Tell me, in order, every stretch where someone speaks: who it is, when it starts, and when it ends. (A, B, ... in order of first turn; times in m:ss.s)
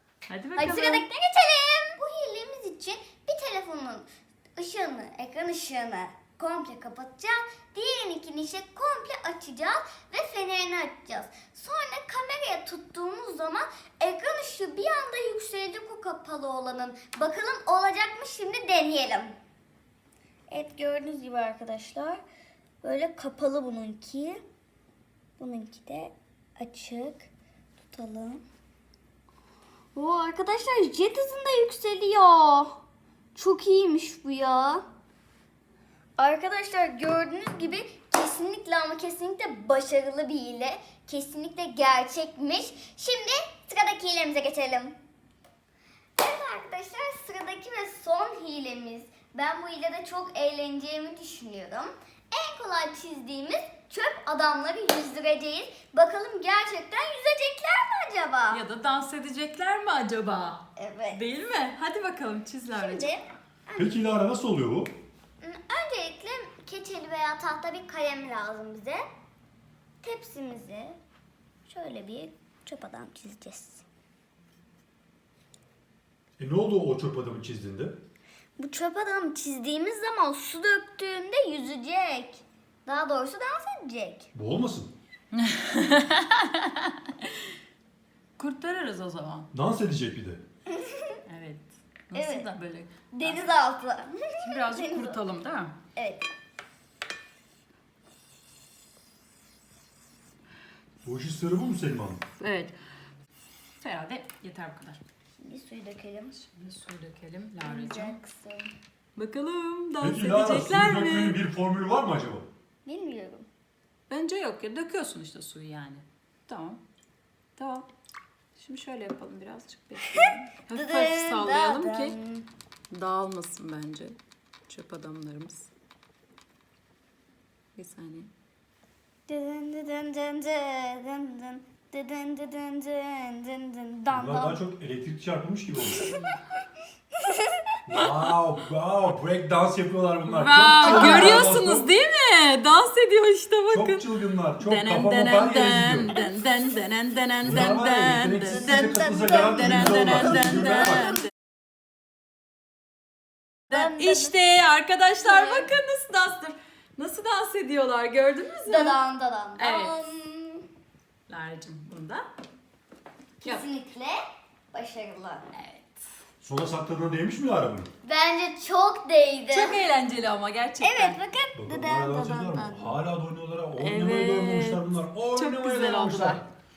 0:00.3-0:01.0 A
0:00.6-0:19.3 B
0:20.5-0:22.2 B
0:22.8-0:24.4 B
0:25.4-0:27.3 B
0:27.9-0:28.4 B
0:29.9-0:32.8 B
0:33.3-0:34.8 B
0:36.2-0:45.0 B
0:46.2-0:58.6 B
0:58.5-1:03.1 A
1:00.8-1:01.2 B
1:02.7-1:04.0 B
1:03.8-1:04.9 C
1:05.4-1:09.0 B
1:10.0-1:11.0 B
1:11.6-1:13.8 B
1:16.4-1:18.0 C
1:18.6-1:24.3 B
1:24.3-1:24.9 C
1:25.3-1:27.3 A
1:28.4-1:29.5 A
1:29.5-1:30.4 C
1:30.7-1:31.2 B
1:31.3-1:33.4 A
1:32.1-1:32.5 B
1:33.1-1:35.2 B
1:34.4-1:35.7 A
1:36.0-1:36.2 B
1:41.0-1:42.2 C
1:42.4-1:42.8 A
1:43.8-1:45.0 A
1:45.4-1:46.4 B
1:46.5-1:48.2 A
1:47.6-1:48.7 B
1:49.2-1:51.4 A
1:50.0-1:52.5 C
1:52.8-1:53.5 B
1:54.1-1:56.8 A
1:57.6-1:57.9 A
1:58.6-2:02.1 A
2:00.7-2:02.5 B
2:02.9-2:05.7 A
2:07.8-2:08.3 A
2:09.3-2:14.6 B
2:14.1-2:16.1 C
2:16.0-2:16.4 A
2:17.9-2:21.9 C
2:20.3-2:31.2 A
2:20.8-2:21.5 B
2:23.7-2:26.2 C
2:27.4-2:31.2 C
2:28.5-2:30.4 B
2:33.7-2:34.3 B
2:33.7-2:39.0 A
2:35.2-2:35.7 B
2:38.6-2:40.6 B
2:39.6-2:40.1 A
2:41.3-2:42.3 A
2:43.4-2:44.2 B
2:44.7-2:45.4 B
2:45.5-2:46.0 A
2:46.4-2:47.9 C
2:48.0-2:49.8 B
2:49.5-2:51.2 A
2:50.8-2:52.9 B
2:51.5-2:56.4 C
2:53.8-2:56.4 A